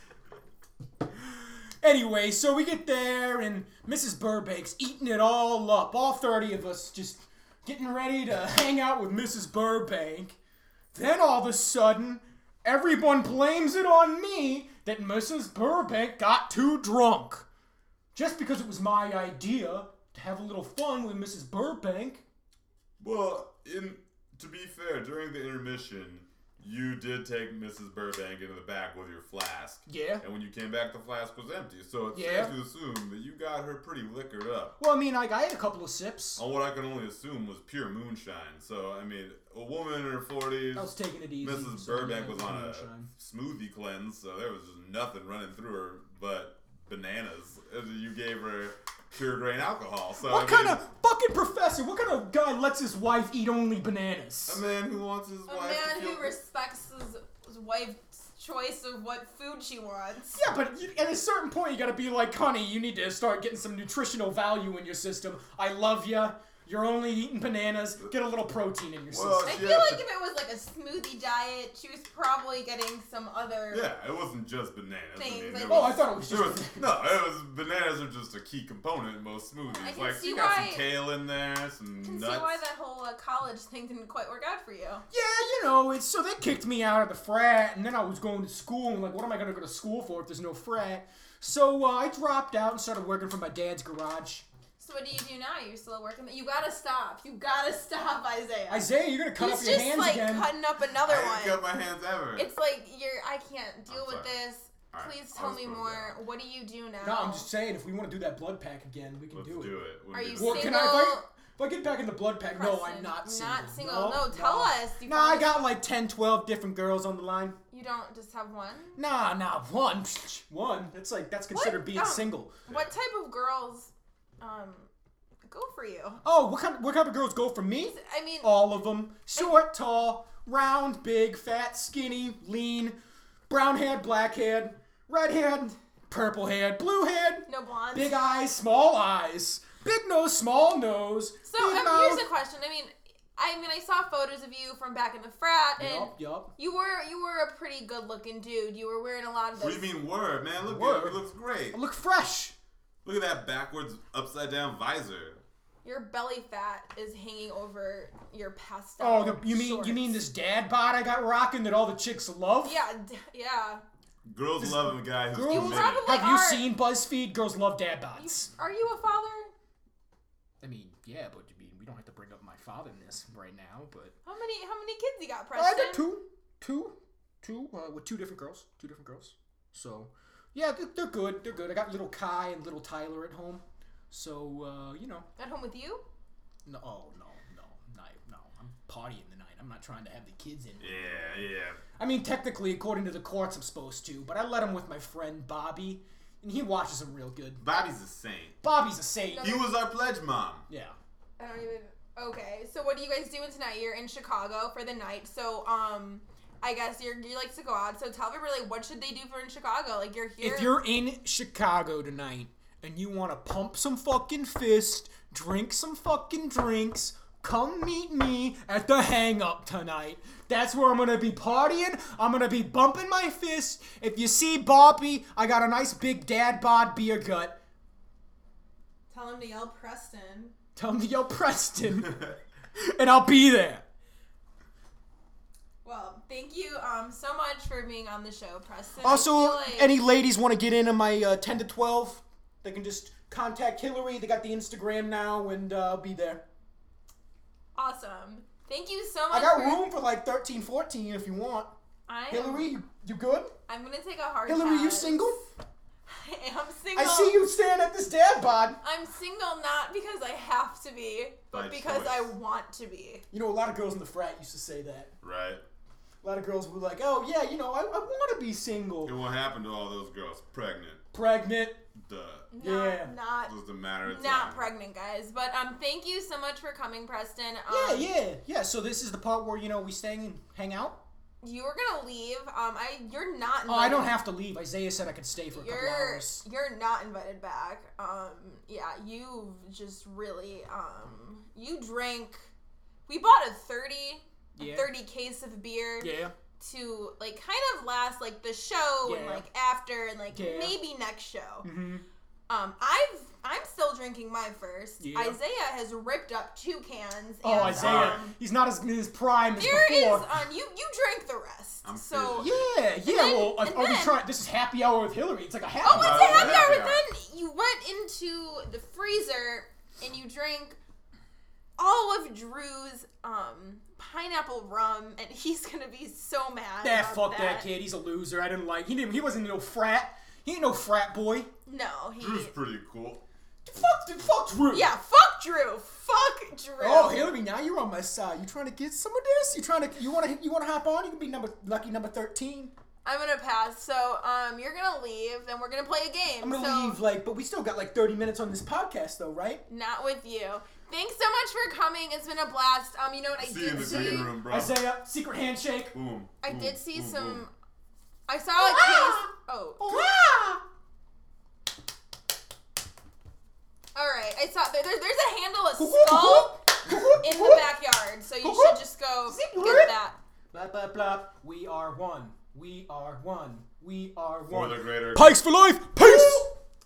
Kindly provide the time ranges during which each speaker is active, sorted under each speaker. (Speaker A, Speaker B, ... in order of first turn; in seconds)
Speaker A: 1.8-10.4, 10.9-17.5, 18.1-22.2, 29.9-30.2, 32.1-32.5, 34.8-36.4, 40.7-43.1, 50.2-54.6, 60.3-69.8, 75.7-76.9, 85.1-94.5, 98.7-100.5, 107.0-109.8, 110.3-117.6, 119.0-122.6, 126.2-133.0, 133.5-142.3, 145.8-146.5, 150.6-152.5, 159.0-162.8, 164.6-168.5, 170.6-174.1, 175.6-185.3, 186.7-191.4, 192.0-197.6, 198.6-199.7, 200.7-200.9, 210.4-227.6, 230.8-233.8, 239.0-246.4, 249.3-251.7, 252.3-253.6, 254.4-255.4, 256.9-258.8, 263.3-265.1, 266.2-269.2, 271.1-271.9, 272.6-273.1, 277.7-281.0, 283.7-286.4, 294.6-294.9, 296.0-296.3, 299.0-299.4, 300.3-300.8, 301.6-302.0, 305.0-305.4, 307.4-310.3, 312.4-316.8, 326.8-331.5, 333.6-334.9, 336.8-342.7, 346.4-349.6, 353.7-355.9, 358.6-360.6, 365.8-367.7, 368.4-370.0, 370.5-376.5
Speaker B: 23.0-34.8, 36.4-50.8, 54.5-56.3, 69.1-70.0, 73.7-82.6, 101.0-102.5, 103.9-104.3, 104.9-106.2, 109.3-110.9, 149.6-151.8, 153.0-155.4, 164.2-166.2, 190.8-191.8, 197.6-198.6, 199.4-200.7, 261.5-262.3, 265.2-265.6, 269.0-271.0, 271.9-272.5, 273.4-274.7, 307.6-308.2, 311.8-312.7, 315.9-317.0, 332.2-333.2, 353.4-354.8, 355.9-357.4, 374.5-375.4
Speaker C: 55.5-60.4, 69.4-73.9, 75.2-76.0, 79.7-80.9, 82.0-85.0, 94.8-98.9, 99.4-101.6, 102.3-107.5, 110.1-111.3, 112.5-115.6, 117.7-119.0, 121.5-124.9, 125.5-126.2, 127.8-128.5, 137.5-138.2, 141.4-149.9, 155.8-160.2, 162.6-163.8, 165.5-166.7, 168.1-169.5, 174.2-176.1, 185.4-186.0, 199.3-199.6, 201.4-210.8, 229.1-230.5, 235.8-239.9, 247.7-249.8, 252.1-252.7, 253.7-255.4, 256.1-257.4, 258.8-263.2, 272.5-278.1, 281.4-284.2, 285.5-292.5, 293.1-301.7, 302.5-308.3, 309.6-312.5, 313.0-314.2, 315.8-320.8, 321.8-327.7, 331.6-332.5, 334.7-337.3, 343.0-347.0, 349.7-354.4, 356.4-357.5, 358.3-360.1, 363.9-366.6, 367.2-370.2, 376.0-376.4